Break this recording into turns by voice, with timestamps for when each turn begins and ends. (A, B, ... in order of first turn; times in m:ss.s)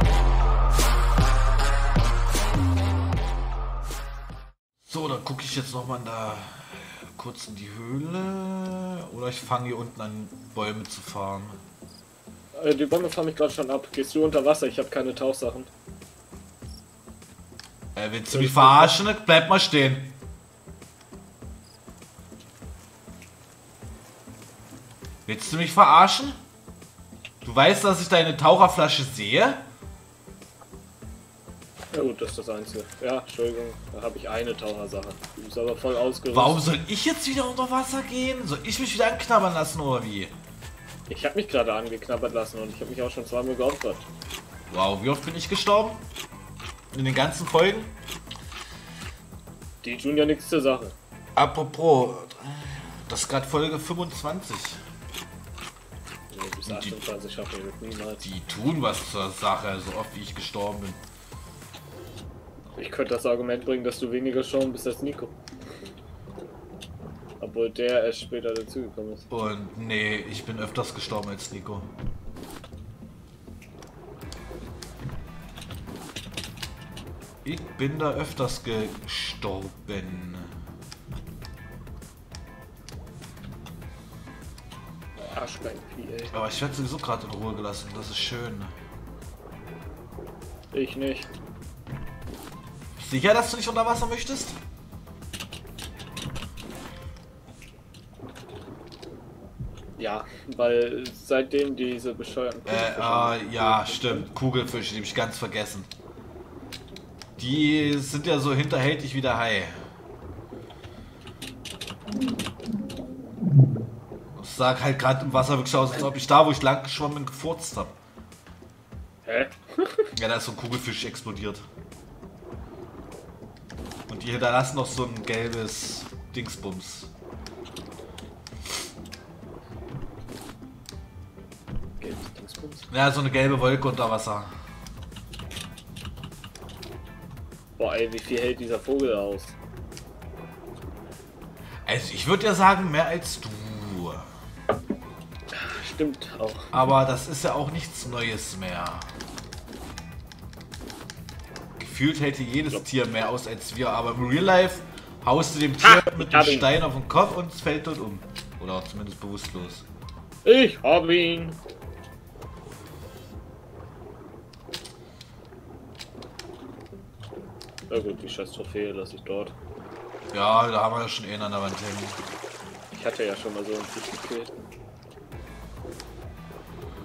0:04.8-0:11.6 A
0:12.5-0:15.7 B
0:18.0-0:20.1 A
0:18.3-0:19.0 B
0:25.2-0:26.4 A
0:27.4-0:29.6 A
0:31.9-0:36.6 B
0:36.3-0:40.3 A
0:41.1-0:44.0 B
0:44.7-0:46.0 A
0:46.9-0:47.9 A
0:49.8-0:51.0 B
0:51.4-0:54.8 A
0:56.3-0:58.3 B
0:56.7-0:57.0 A
0:58.2-1:01.0 A
1:02.8-1:05.3 B
1:07.4-1:09.3 B
1:09.3-1:11.9 A
1:17.4-1:20.6 A
1:25.2-1:26.4 B
1:26.3-1:28.7 A
1:30.7-1:31.3 B
1:33.0-1:34.6 A
1:40.0-1:44.3 B
1:42.7-1:45.9 A
1:47.4-1:49.8 A
1:54.3-1:58.0 A
1:59.2-2:00.1 B
2:00.1-2:01.6 A
2:04.1-2:07.1 A
2:12.0-2:12.9 B
2:12.9-2:14.5 A
2:17.8-2:19.6 B
2:21.8-2:24.3 A
2:25.5-2:26.7 B
2:26.7-2:29.1 A
2:31.8-2:39.8 A
2:35.8-2:36.7 B
2:40.4-2:41.6 B
2:47.9-2:49.5 B
2:50.3-2:52.2 A
2:52.9-2:54.5 B